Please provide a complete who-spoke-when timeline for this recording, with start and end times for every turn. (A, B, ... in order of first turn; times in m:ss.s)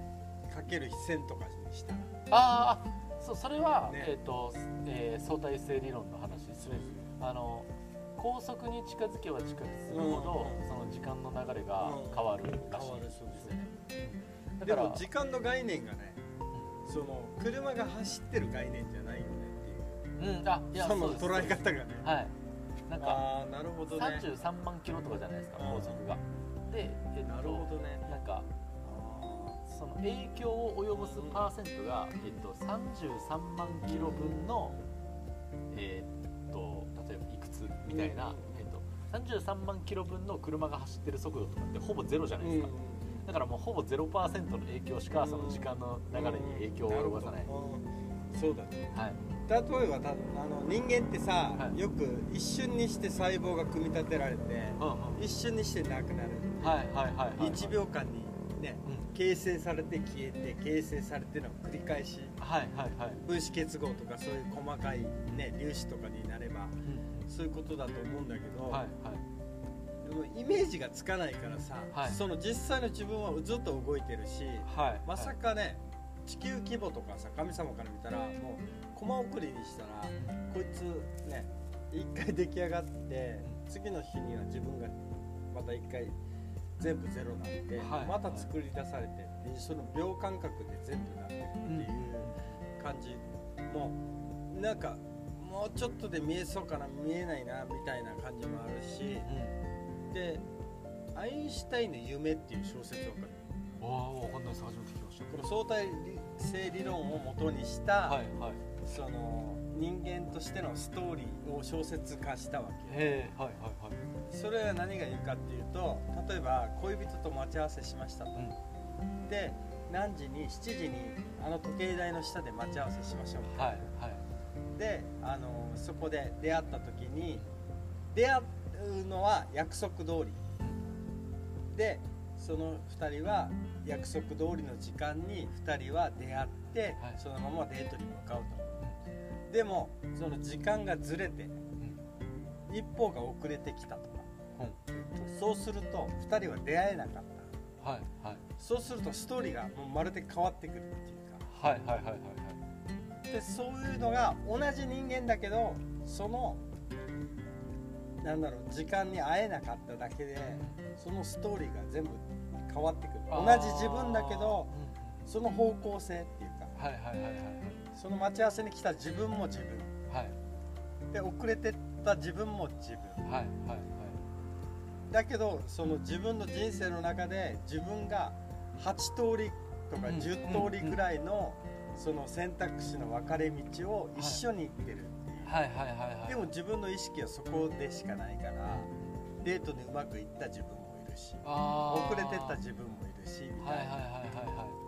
0:00.5-0:02.1 A
0:02.3-0:15.0 B
0:03.9-0:04.1 A
0:06.6-0:07.0 A
0:09.9-0:10.6 A
0:11.8-0:13.6 A
0:14.6-0:16.2 A
0:16.8-0:20.1 A
0:20.2-0:22.3 B
0:20.7-0:22.1 A
0:22.9-0:23.2 B
0:23.0-0:24.3 A
0:23.9-0:28.5 B
0:25.6-0:26.0 A
0:27.2-0:28.1 A
0:28.8-0:29.6 A
0:29.6-0:34.8 B
0:30.9-0:31.5 A
0:33.8-0:34.7 A
0:35.7-0:47.5 B
0:37.8-0:38.6 A
0:42.4-0:43.2 A
0:45.1-0:56.8 A
0:48.9-0:49.2 B
0:54.8-0:55.2 B
0:56.6-0:57.8 B
0:57.4-1:02.3 A
1:02.4-1:03.2 B
1:03.2-1:08.8 A
1:06.8-1:07.3 B
1:08.7-1:09.2 B
1:10.0-1:26.2 A
1:11.9-1:12.2 B
1:14.6-1:15.3 B
1:26.8-1:34.0 A
1:27.8-1:28.5 B
1:31.6-1:32.6 B
1:34.5-1:39.3 A
1:39.2-1:39.6 B
1:40.1-1:40.4 A
1:41.1-1:43.4 A
1:43.8-1:45.4 B
1:45.3-1:48.2 A
1:48.0-1:48.6 B
1:48.8-1:53.2 A
1:52.9-1:54.0 B
1:54.3-1:58.5 A
1:59.2-2:03.8 A
2:03.5-2:04.2 B
2:04.7-2:07.4 A
2:08.1-2:10.4 A
2:11.7-2:18.7 A
2:19.5-2:21.6 A
2:22.7-2:24.3 A
2:24.6-2:25.3 B
2:25.3-2:27.5 A
2:27.8-2:28.4 B
2:28.6-2:31.4 A
2:31.5-2:32.6 B
2:33.3-2:36.6 A
2:38.2-2:44.7 A
2:40.6-2:40.8 B
2:43.3-2:45.3 B
2:45.2-2:46.8 A
2:46.8-2:47.8 B
2:47.9-2:49.9 A
2:50.1-2:50.4 B
2:51.1-2:53.2 A
2:53.2-2:54.2 B
2:55.1-3:05.5 A
3:00.1-3:01.0 B
3:04.2-3:04.4 B
3:05.4-3:06.5 B
3:06.2-3:08.9 A
3:08.7-3:09.1 B
3:09.4-3:14.0 A
3:11.4-3:12.6 B
3:13.6-3:14.8 B